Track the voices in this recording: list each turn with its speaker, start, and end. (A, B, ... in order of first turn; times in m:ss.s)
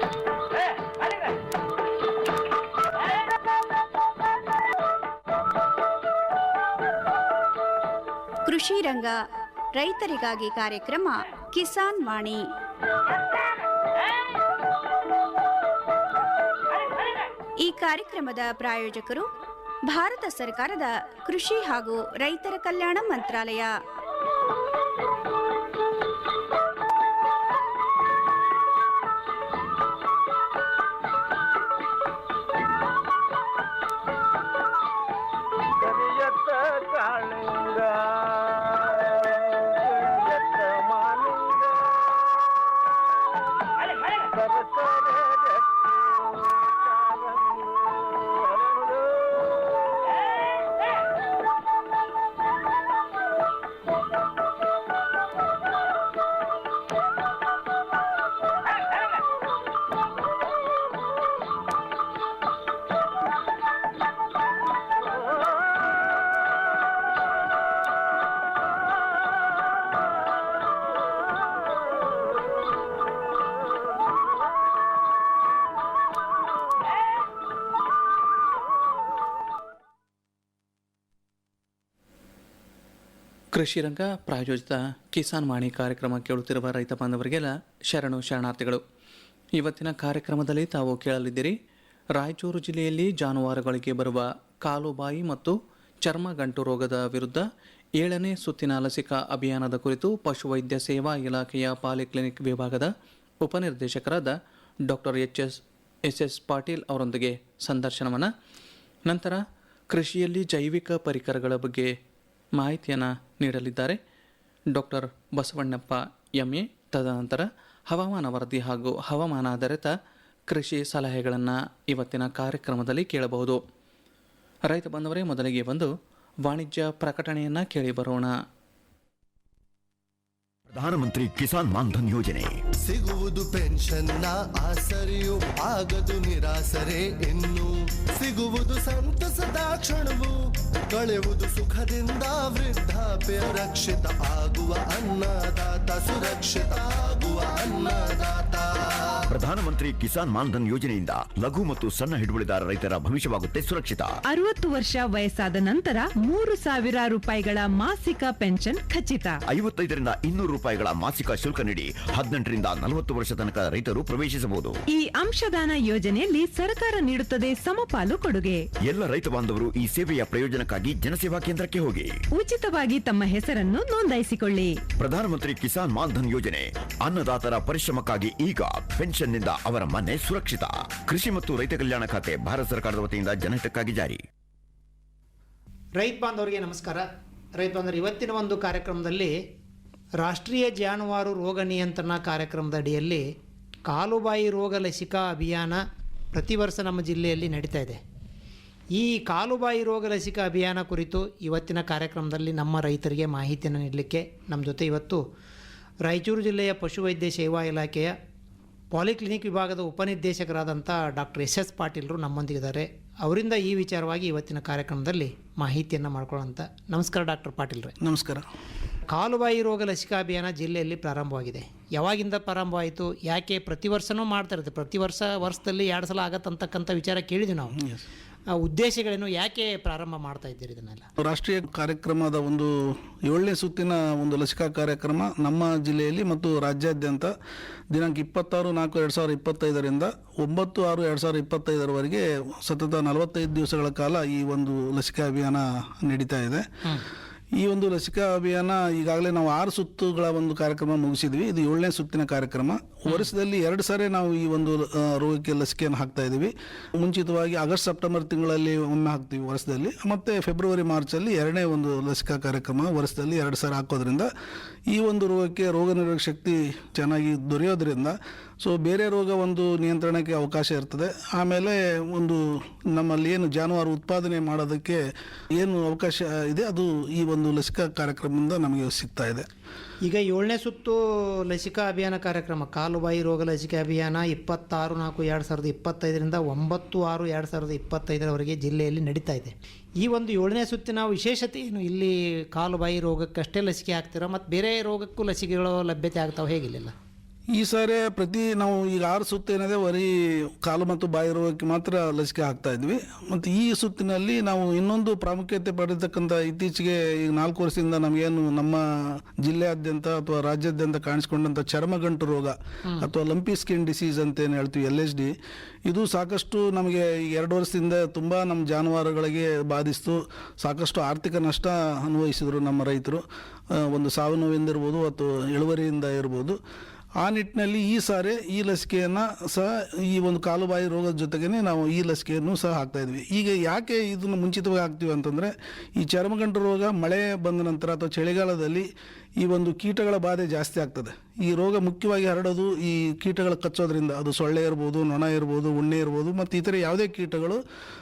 0:08.4-0:09.2 A
0:09.7-0:12.4 A
0:17.6-0:19.3 A
0:19.9-0:23.8 A
1:23.5-1:28.8 B
1:29.6-1:31.6 B
1:32.2-1:37.4 B
1:38.0-1:42.9 B
1:43.4-1:44.4 B
1:44.9-1:48.3 B
1:49.1-1:51.9 B
1:52.6-1:54.0 B
1:54.7-1:59.9 B
2:00.5-2:03.6 B
2:04.7-2:05.9 B
2:06.4-2:08.3 B
2:10.7-2:12.5 C
2:12.8-2:29.2 D
2:29.3-2:34.2 C
2:34.3-2:39.4 E
2:39.5-2:44.8 C
2:44.9-2:48.7 E
2:48.8-2:52.2 C
2:52.4-2:54.8 E
2:55.0-3:04.2 C
3:06.0-3:07.0 F
3:07.6-3:09.3 F
3:10.2-3:13.2 F
3:13.9-3:15.8 F
3:16.3-3:18.0 F
3:18.9-3:25.2 F
3:26.0-3:28.1 F
3:28.9-3:37.9 F
3:38.0-3:38.4 G
3:39.1-3:47.8 F
3:48.6-3:51.1 F
3:51.2-3:57.3 G
3:57.9-4:06.6 G
4:07.6-4:24.3 G
4:24.9-4:35.0 G
4:35.5-4:39.5 G
4:40.0-4:56.9 F
4:57.6-5:15.3 G
5:15.9-5:23.2 G
5:23.7-5:26.6 G
5:27.2-5:38.9 G
5:39.4-5:47.6 G